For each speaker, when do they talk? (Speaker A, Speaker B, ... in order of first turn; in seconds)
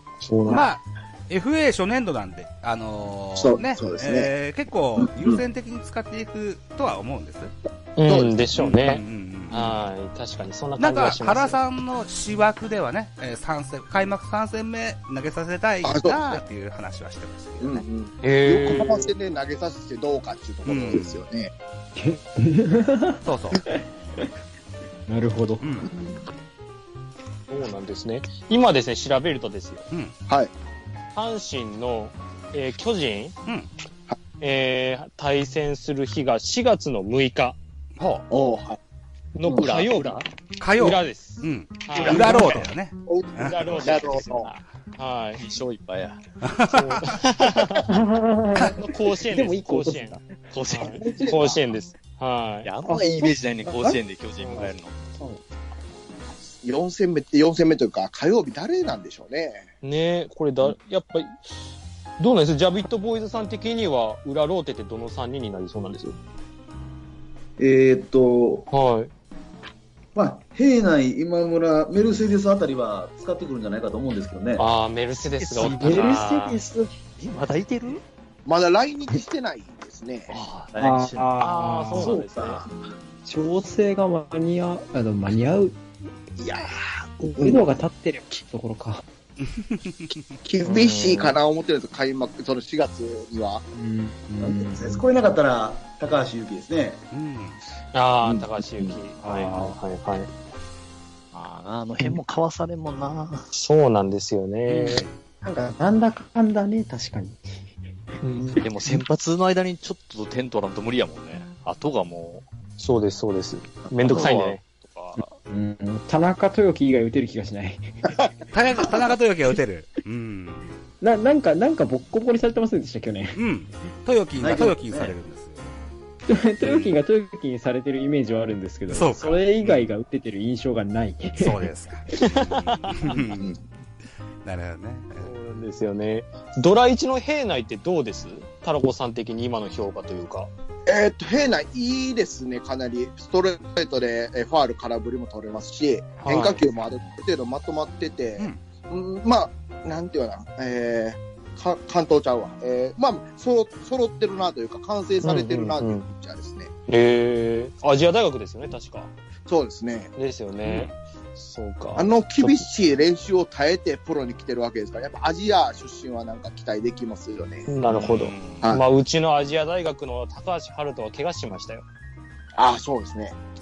Speaker A: 0.2-0.7, 8.0-11.6, 18.2-19.1, 27.5-29.9, 31.1-33.4, 34.4-37.6, 39.3-40.2, 40.7-42.7, 43.4-45.4, 46.7-47.9, 48.7-50.2, 50.7-52.7, 54.4-54.7, 59.8-61.4, 62.2-66.2, 68.7-69.1, 74.6-76.6, 81.4-82.6, 90.6-91.3, 97.9-100.3, 103.5-105.1, 108.2-108.6, 112.8-114.6, 132.2-133.2, 135.2-140.5, 146.2-146.6, 155.2-156.1, 156.9-159.1, 160.2-162.7, 167.7-171.8
Speaker B: 0.5-7.5, 8.6-9.8, 10.8-17.8, 20.7-21.2, 23.2-23.6, 25.6-25.9, 38.0-38.3, 40.6-44.0, 46.4-47.2, 89.4-90.3, 97.1-97.6, 104.7-105.2, 118.5-120.7, 123.3-125.7, 126.6-127.0, 128.9-129.8, 131.4-133.6, 134.4-135.3, 148.4-148.6, 160.6-161.0
Speaker C: 3.4-4.3, 5.0-5.4, 8.1-8.5, 15.8-16.4, 17.6-21.5, 25.8-26.2, 38.3-38.8, 42.0-44.5, 50.9-51.6, 56.6-59.7, 78.5-80.3, 86.4-87.6, 90.4-93.6, 140.9-156.7, 159.5-160.1, 162.0-167.7, 168.6-168.8, 172.6-173.4
Speaker D: 21.9-24.3, 25.1-25.6, 47.8-51.2, 52.8-54.0, 54.5-55.4, 75.7-76.8, 80.8-82.3, 83.2-85.8, 87.3-89.0, 93.7-95.0, 99.2-99.8, 105.4-107.5, 108.3-108.9, 115.2-117.9, 121.0-123.4, 126.3-131.6
Speaker E: 39.5-40.3, 45.4-46.2, 50.5-51.2, 52.6-54.9, 75.4-78.0, 80.3-82.6, 101.3-103.5, 108.6-112.4, 114.0-115.2, 167.9-168.8
Speaker F: 67.6-68.7, 70.2-74.7, 82.0-82.6, 94.4-97.0, 124.4-125.2